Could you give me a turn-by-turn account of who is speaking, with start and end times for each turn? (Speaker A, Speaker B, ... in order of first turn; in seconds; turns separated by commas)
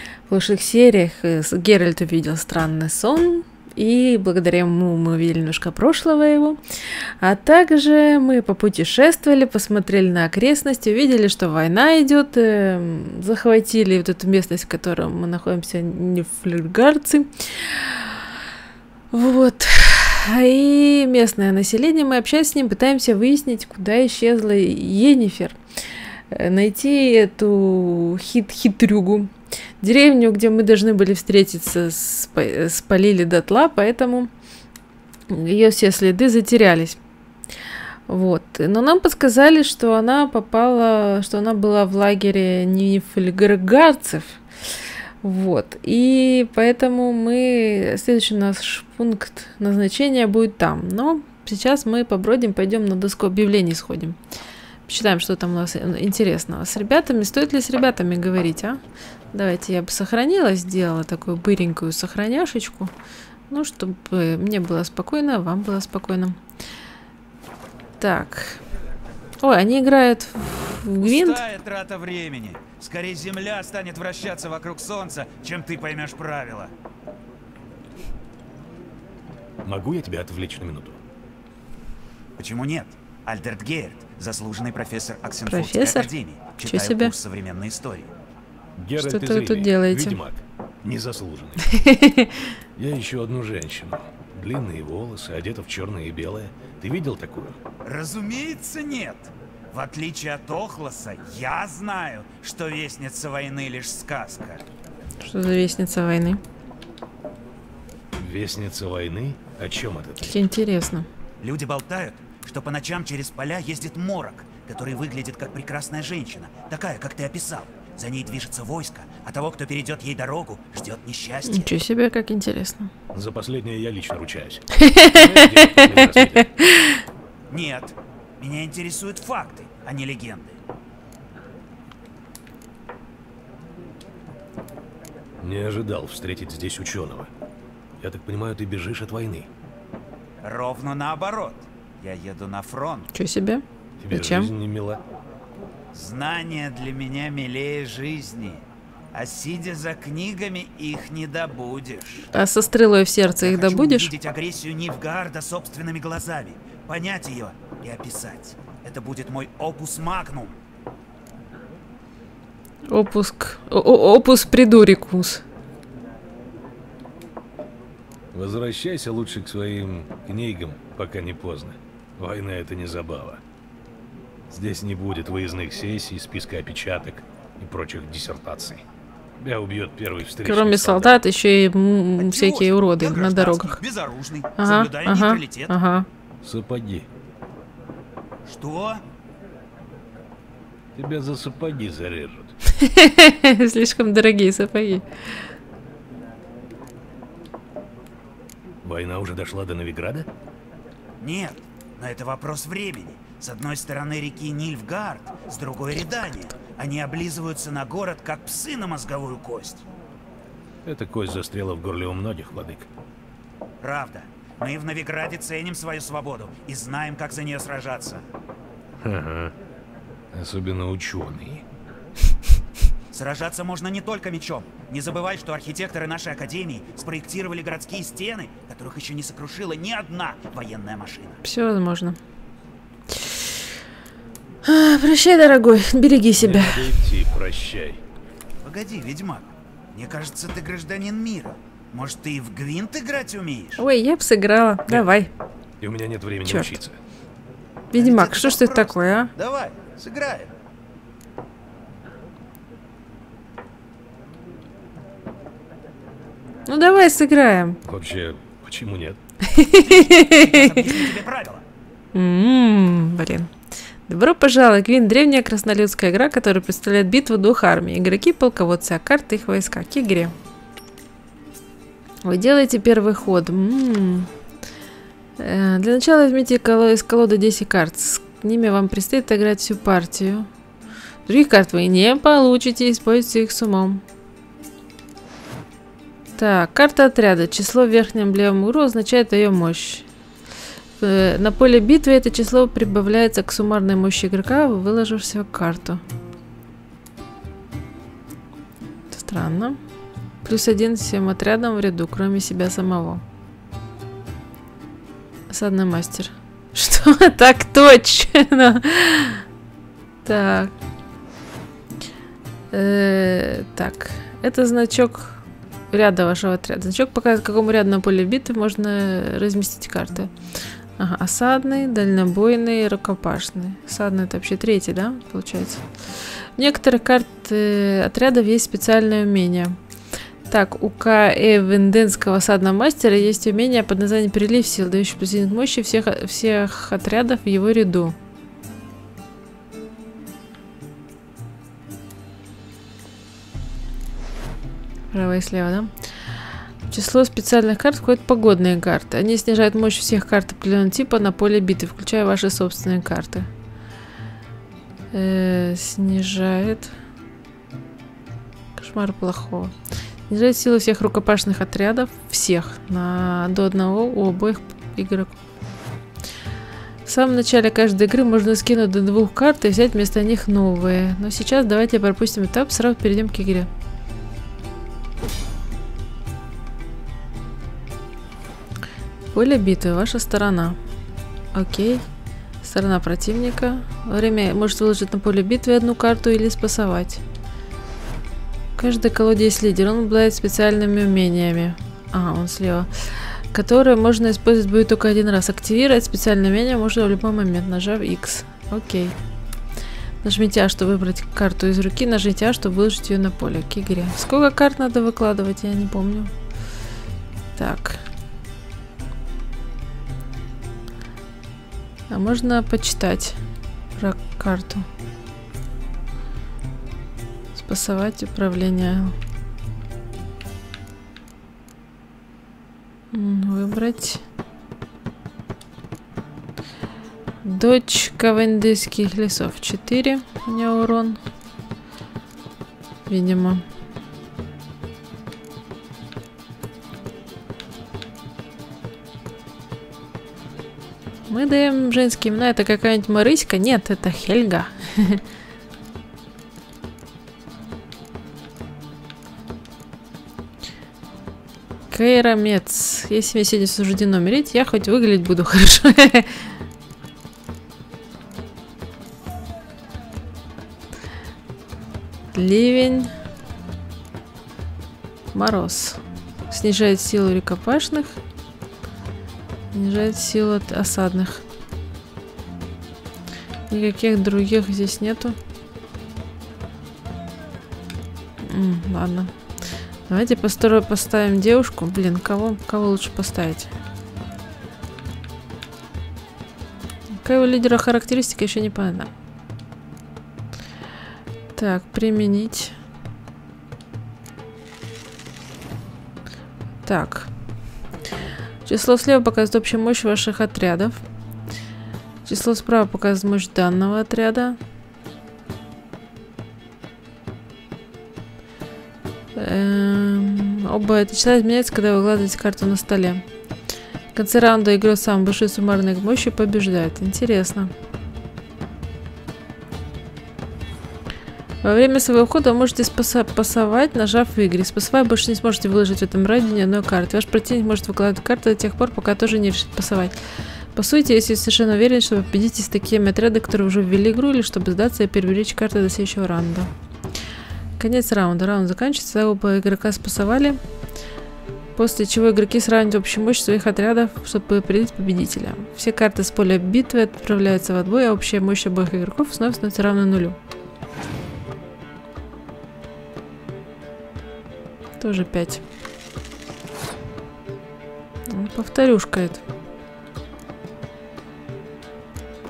Speaker A: 0.3-6.6, Speaker A: 7.2-18.3, Speaker A: 19.1-25.6, Speaker A: 26.3-34.3, Speaker A: 35.3-37.0, Speaker A: 38.1-44.4, Speaker A: 45.2-54.2, Speaker A: 54.9-58.8, Speaker A: 59.3-62.9, Speaker A: 63.5-66.4, Speaker A: 68.0-68.6, Speaker A: 69.4-71.4, Speaker B: 71.0-76.7, Speaker C: 79.6-81.0, Speaker B: 82.4-88.1, Speaker A: 85.5-86.1, Speaker A: 86.6-87.1, Speaker C: 88.8-91.6, Speaker A: 89.0-90.2, Speaker A: 91.7-92.5, Speaker C: 92.8-97.6, Speaker B: 97.8-104.6, Speaker A: 105.2-106.4, Speaker C: 108.2-110.5, Speaker A: 110.2-111.1, Speaker B: 111.4-121.7, Speaker A: 121.5-122.9, Speaker C: 123.1-126.5, Speaker A: 124.8-127.0, Speaker B: 127.5-130.6, Speaker C: 135.4-137.3, Speaker C: 138.0-139.5, Speaker B: 140.4-143.1, Speaker A: 143.1-144.5, Speaker C: 144.0-145.0, Speaker B: 145.9-148.6, Speaker B: 149.1-152.3, Speaker A: 152.3-154.1, Speaker B: 153.4-160.5, Speaker A: 162.9-165.4, Speaker C: 168.3-173.4, Speaker C: 174.5-178.8, Speaker C: 179.4-181.2, Speaker A: 180.4-183.8, Speaker B: 182.2-185.7, Speaker A: 184.6-186.1, Speaker C: 186.4-187.1, Speaker B: 188.4-189.0, Speaker C: 190.9-192.5, Speaker A: 192.8-195.0, Speaker C: 198.8-200.3, Speaker B: 201.2-209.8, Speaker C: 210.8-212.9, Speaker B: 213.8-218.2, Speaker C: 219.0-219.5, Speaker C: 220.3-221.6, Speaker B: 223.1-231.4, Speaker A: 231.4-232.2, Speaker A: 233.1-233.4, Speaker A: 234.6-236.9, Speaker C: 236.4-238.0, Speaker B: 238.6-243.8, Speaker A: 243.8-245.3, Speaker C: 245.8-247.0, Speaker A: 246.4-246.8, Speaker A: 247.9-249.3, Speaker B: 247.9-250.5, Speaker A: 256.7-257.8, Speaker C: 257.8-259.2, Speaker A: 259.4-260.9, Speaker B: 259.9-261.6, Speaker A: 262.1-263.5, Speaker A: 264.1-270.3, Speaker A: 272.2-274.3, Speaker A: 275.4-280.5, Speaker A: 281.2-284.0, Speaker A: 286.4-290.0, Speaker A: 291.0-296.0, Speaker A: 299.1-299.8, Speaker A: 300.4-303.2, Speaker A: 305.5-309.4, Speaker A: 310.2-310.7, Speaker A: 312.7-320.3, Speaker A: 321.0-325.8, Speaker A: 326.6-329.8, Speaker A: 330.5-338.1, Speaker A: 345.1-345.9, Speaker A: 346.9-353.5, Speaker A: 355.1-356.9, Speaker A: 358.8-359.7, Speaker A: 360.3-365.3, Speaker A: 367.1-373.7, Speaker A: 379.3-380.8, Speaker A: 381.5-382.0, Speaker A: 382.6-387.2, Speaker A: 388.8-399.1, Speaker A: 400.2-406.3, Speaker A: 407.6-408.0, Speaker A: 412.1-413.4, Speaker A: 413.9-414.9, Speaker A: 417.6-419.1, Speaker A: 423.1-424.2, Speaker A: 427.4-431.2, Speaker A: 433.1-433.6, Speaker A: 441.3-445.2, Speaker A: 451.9-456.3, Speaker A: 462.3-463.1, Speaker A: 465.3-466.0, Speaker A: 466.5-468.2, Speaker A: 469.7-471.4, Speaker A: 473.7-475.4, Speaker A: 478.4-479.3, Speaker A: 480.1-483.7, Speaker A: 487.2-489.1, Speaker A: 491.5-492.7, Speaker A: 496.9-497.3, Speaker A: 498.6-501.0, Speaker A: 502.2-504.6, Speaker A: 509.4-513.2, Speaker A: 514.1-517.7, Speaker A: 521.6-530.1, Speaker A: 530.7-536.7, Speaker A: 537.8-540.6, Speaker A: 541.8-550.4, Speaker A: 555.0-555.6, Speaker A: 558.3-559.4